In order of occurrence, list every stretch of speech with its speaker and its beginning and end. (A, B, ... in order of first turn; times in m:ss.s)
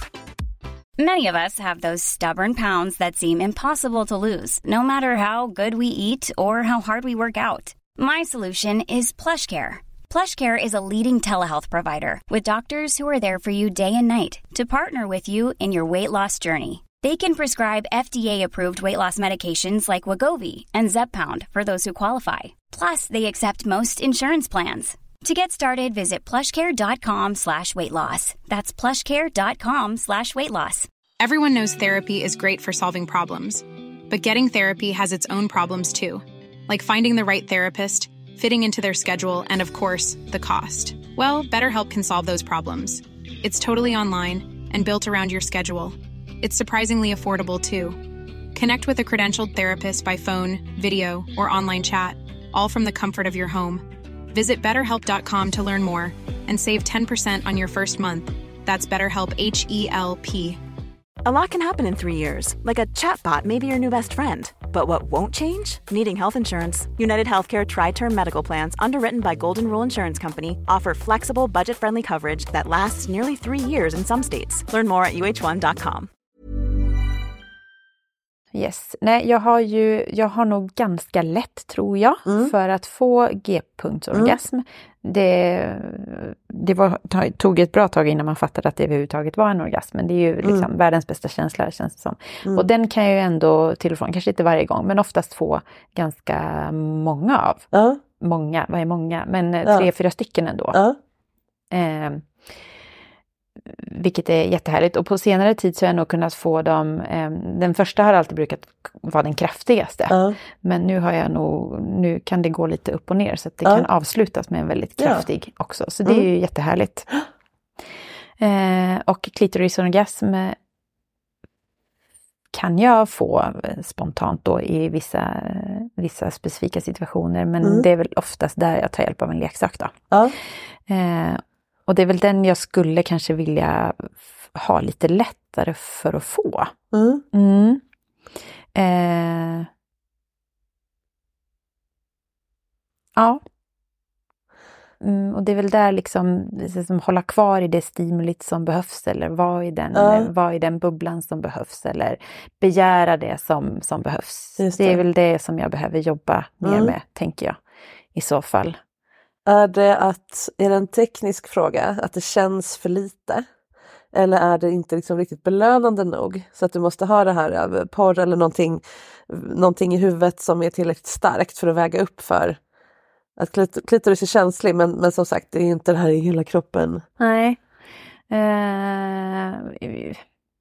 0:01.0-0:30.9 A
0:31.2-0:48.0 B
0:48.5-1:00.6 B
1:01.2-1:16.1 C
1:18.5-1:37.7 D
1:22.2-1:22.5 E
1:37.7-1:38.0 E
1:38.2-1:40.8 D
1:40.7-1:41.0 E
1:41.7-1:42.5 D
1:43.7-1:57.1 D
1:50.1-1:50.4 E
1:55.0-1:55.2 E
1:58.4-2:00.6 D
2:02.5-2:09.9 D
2:07.6-2:07.9 E
2:10.1-2:10.4 E
2:10.9-2:16.7 D
2:16.9-2:17.2 E
2:17.3-2:17.8 D
2:18.7-2:19.7 D
2:25.0-2:37.6 D
2:29.9-2:30.3 E
2:34.6-2:35.0 E
2:36.6-2:36.9 E
2:38.1-2:38.8 D
2:39.4-2:43.4 E
2:44.1-2:52.6 E
2:53.4-2:57.0 E
2:57.2-2:57.6 D
2:58.3-3:00.2 D